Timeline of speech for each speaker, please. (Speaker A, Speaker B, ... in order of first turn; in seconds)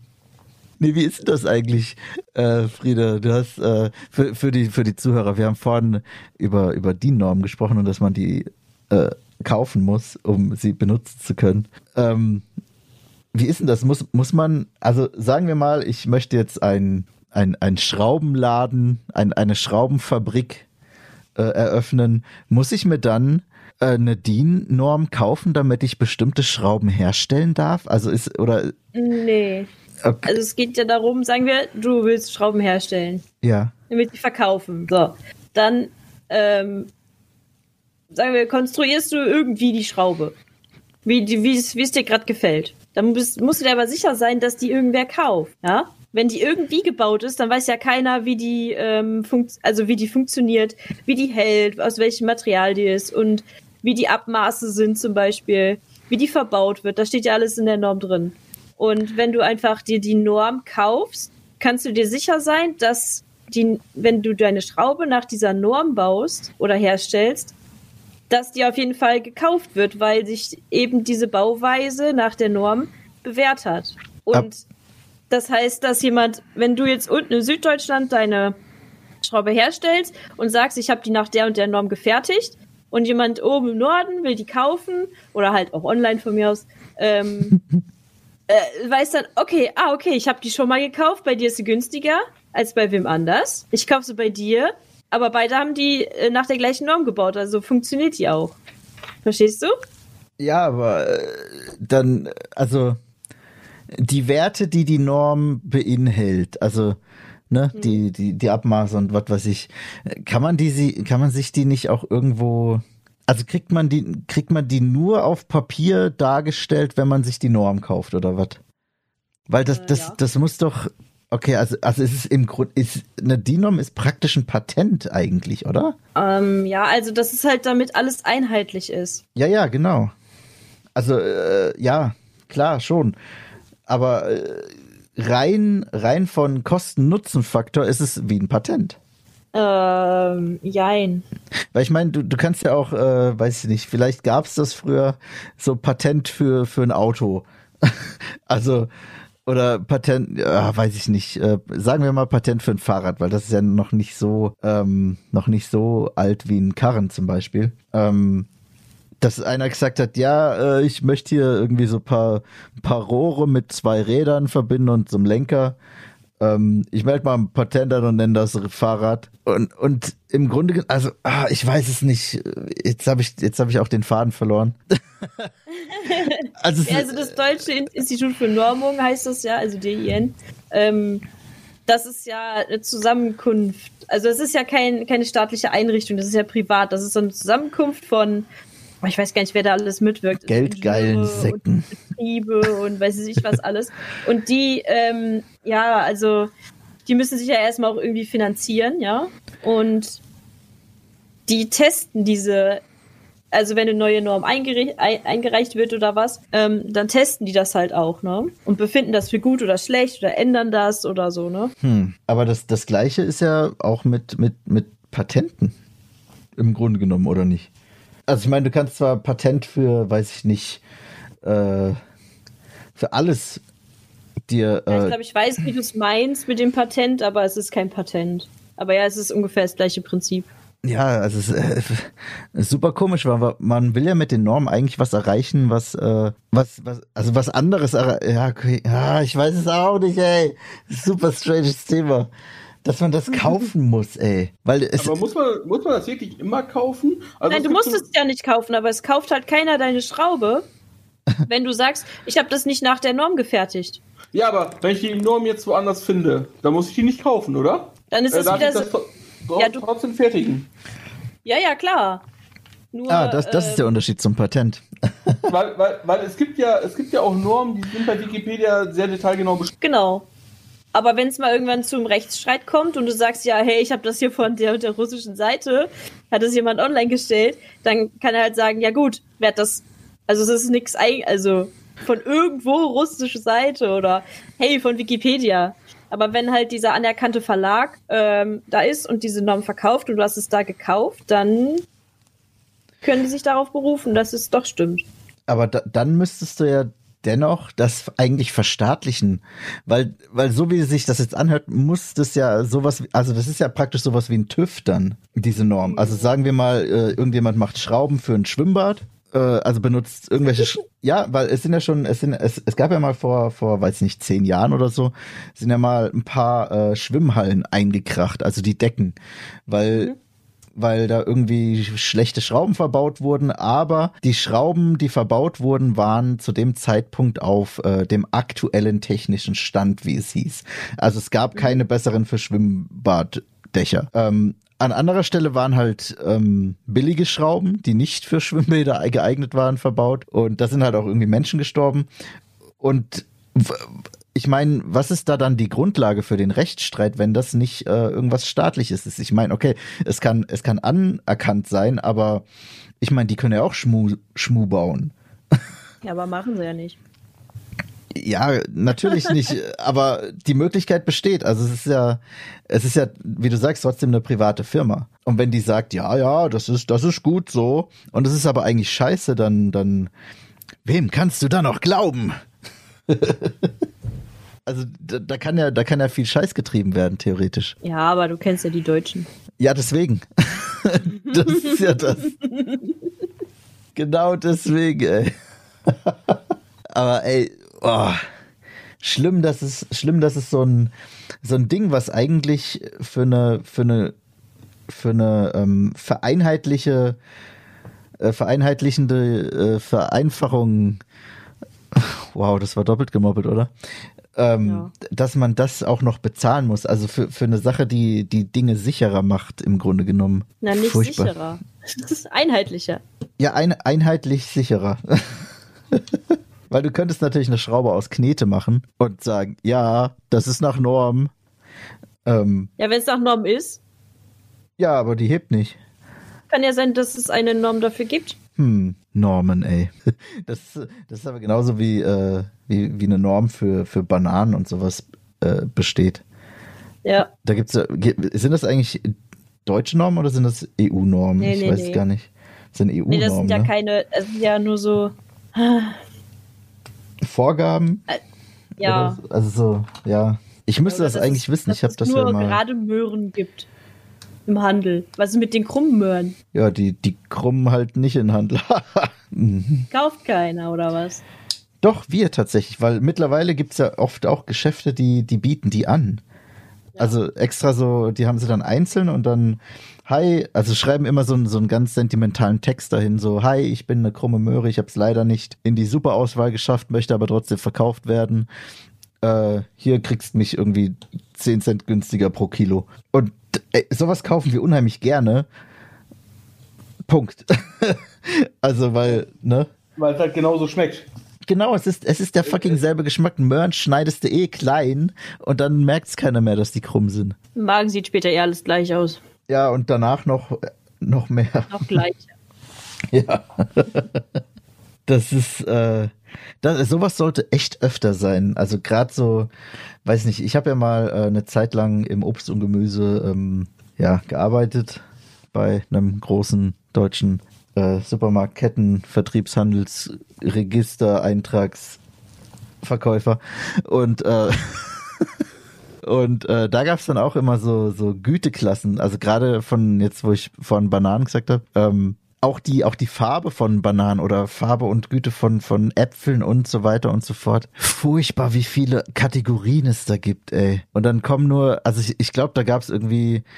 Speaker A: 0.8-12.4, 13.3-20.6, 21.4-28.7, 30.0-30.3, 33.4-33.7, 100.4-103.0, 104.0-107.0, 107.5-118.6, 119.5-125.9, 129.3-130.1, 130.9-133.2, 133.9-139.0, 141.7-147.9, 148.5-148.9, 149.4-158.5, 159.2-165.8, 166.4-175.5, 176.6-177.6, 190.4-191.9, 211.8-215.7, 216.6-217.7, 218.3-220.8, 221.4-222.0, 222.9-223.6, 224.5-225.2, 230.8-242.3, 242.8-245.2, 263.1-265.4, 295.5-319.1, 319.7-320.1, 320.8-342.1, 342.8-352.4, 353.0-355.1, 358.1-370.1, 370.8-372.4, 373.1-373.7, 374.6-377.7, 379.6-382.3, 383.9-385.3, 385.9-386.4, 386.9-388.2, 389.0-390.9, 391.4-394.1, 394.9-397.2, 398.2-401.0, 401.9-403.7, 404.4-411.3, 413.4-416.0, 416.7-421.3, 422.2-422.7, 424.8-425.8, 428.6-429.9, 430.4-436.2, 437.4-439.1, 439.6-443.7, 447.2-448.0, 448.8-452.6, 456.5-459.9, 461.8-466.2, 467.0-478.5, 479.2-485.5, 487.1-489.7, 491.5-497.4, 499.5-502.0, 503.1-504.2, 505.1-509.5, 510.0-515.0, 515.5-522.0, 522.8-525.0, 526.0-543.4
Speaker B: 28.9-29.7, 30.2-33.2, 33.9-36.9, 38.1-40.3, 41.0-67.5, 68.3-74.6, 75.3-78.5, 79.2-87.6, 88.5-98.6, 99.2-99.7, 107.8-108.0, 119.7-120.2, 126.2-129.2, 139.5-141.2, 175.8-181.2, 181.9-188.5, 189.0-196.5, 197.1-200.2, 201.5-202.8, 203.5-211.7, 224.9-230.5, 247.5-250.7, 251.4-254.0, 258.1-258.9, 259.6-259.8, 261.4-262.2, 262.9-263.9, 269.8-270.2, 270.9-291.8, 293.0-295.0, 305.8-306.3, 356.0-357.0, 377.8-379.3, 381.2-382.9, 404.6-404.9, 410.6-413.0, 422.8-423.8, 426.5-428.4, 437.0-437.3, 441.4-442.0, 443.1-446.0, 448.8-449.2, 450.9-453.7, 454.4-456.3, 459.9-461.2, 497.5-499.2, 501.7-502.3
Speaker C: 245.0-248.0, 254.3-260.7, 265.5-269.7, 489.9-491.1, 492.4-492.8